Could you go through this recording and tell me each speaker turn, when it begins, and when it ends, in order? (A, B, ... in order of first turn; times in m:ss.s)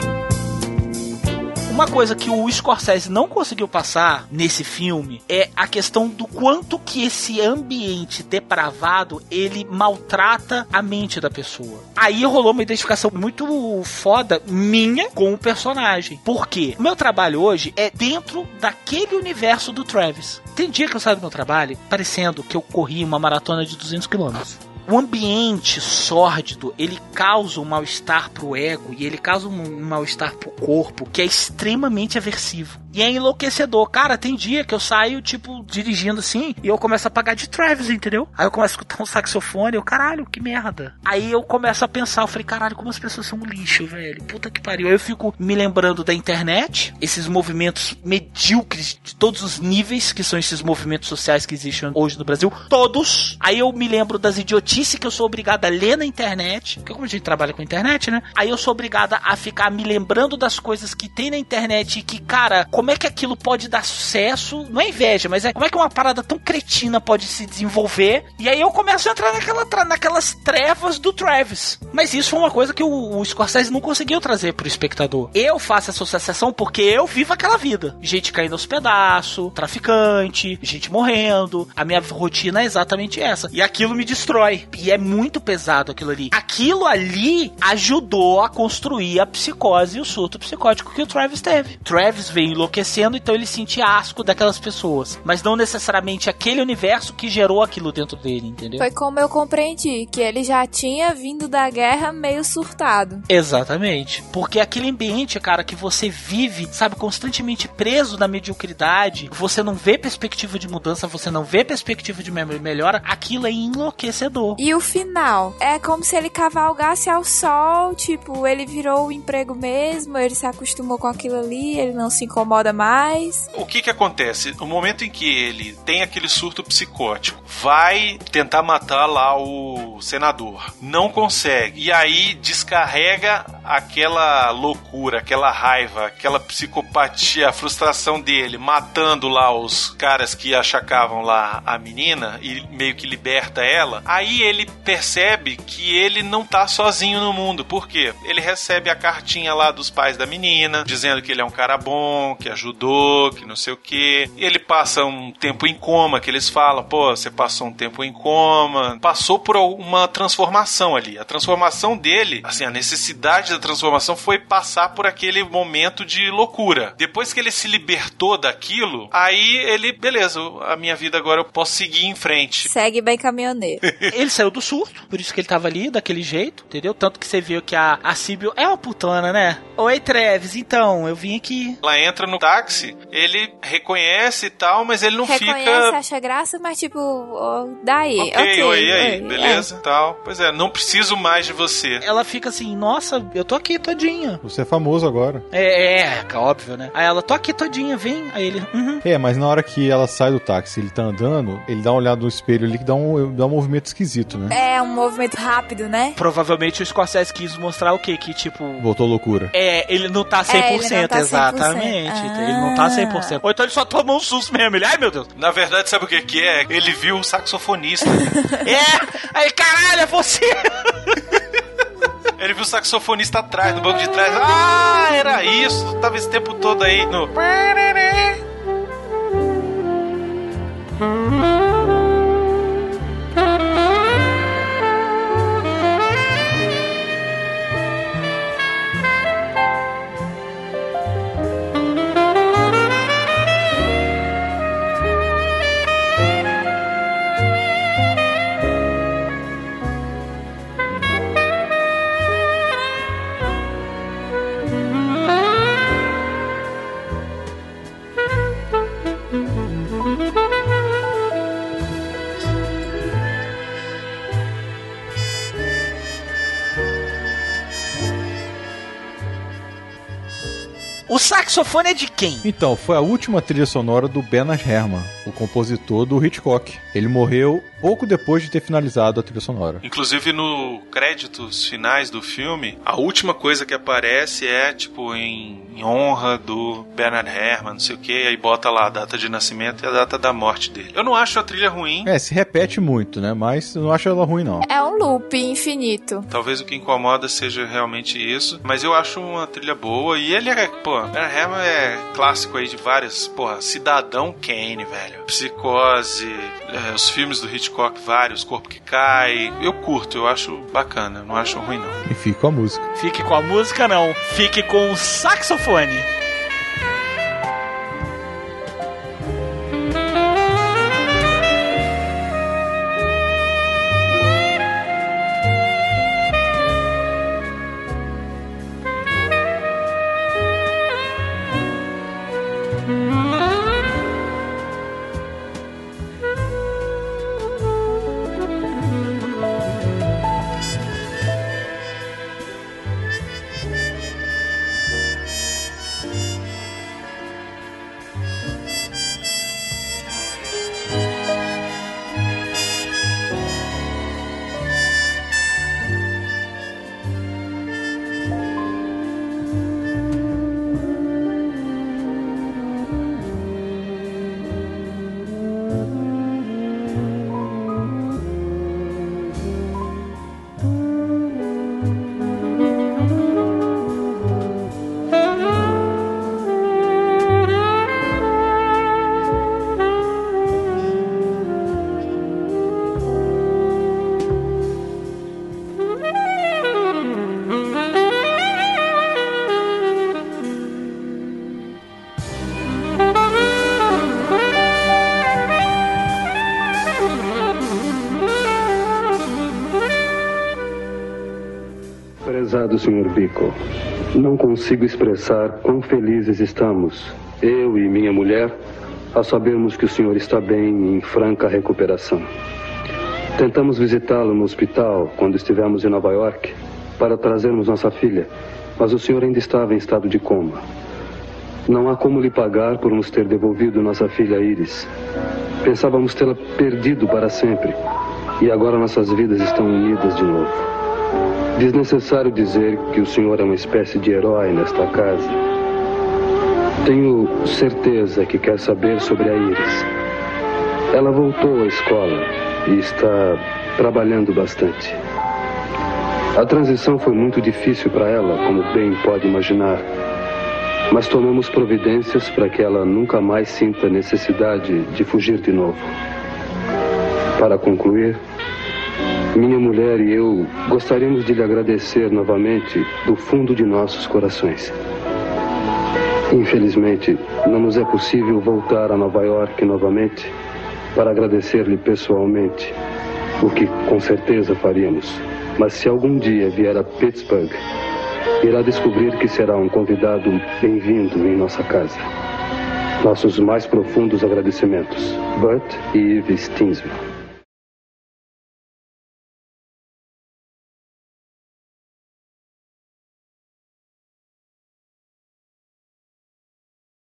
0:01.7-1:38.8 A
1:38.8-1:43.2 B
1:43.3-1:54.6 A
1:54.6-2:03.4 B
2:03.5-2:52.7 C
2:52.6-2:53.8 B
2:54.1-3:01.8 A
3:01.8-3:06.0 C
3:05.2-3:09.7 B
3:08.2-3:12.0 C
3:12.0-3:14.4 A
3:14.4-3:15.4 D
3:15.5-3:19.0 A
3:19.0-3:24.6 D
3:24.5-3:26.2 B
3:26.2-3:28.8 A
3:28.8-3:29.5 D
3:29.5-3:35.3 A
3:30.5-3:33.4 B
3:35.4-3:38.3 C
3:38.6-3:41.2 A
3:42.4-3:48.4 C
4:31.1-4:32.5 A
4:32.4-4:39.8 D
4:39.8-4:52.1 C
4:52.0-4:54.7 D
4:54.6-4:56.3 B
4:56.3-5:12.0 C
5:12.0-5:12.8 D
5:13.0-5:16.1 A
6:42.2-6:43.6 E
6:44.1-6:48.6 E
6:49.1-6:52.3 E
6:53.4-7:00.6 E
7:01.7-7:04.9 E
7:05.6-7:07.8 E
7:08.4-7:10.7 E
7:11.6-7:15.4 E
7:16.8-7:19.9 E
7:20.9-7:25.0 E
7:26.3-7:29.8 E
7:30.9-7:35.9 E
7:37.4-7:38.2 E
7:39.3-7:44.7 E
7:46.3-7:50.3 E
7:50.9-7:52.8 E
7:53.4-7:57.6 E
7:58.4-8:02.0 E
8:03.0-8:07.0 E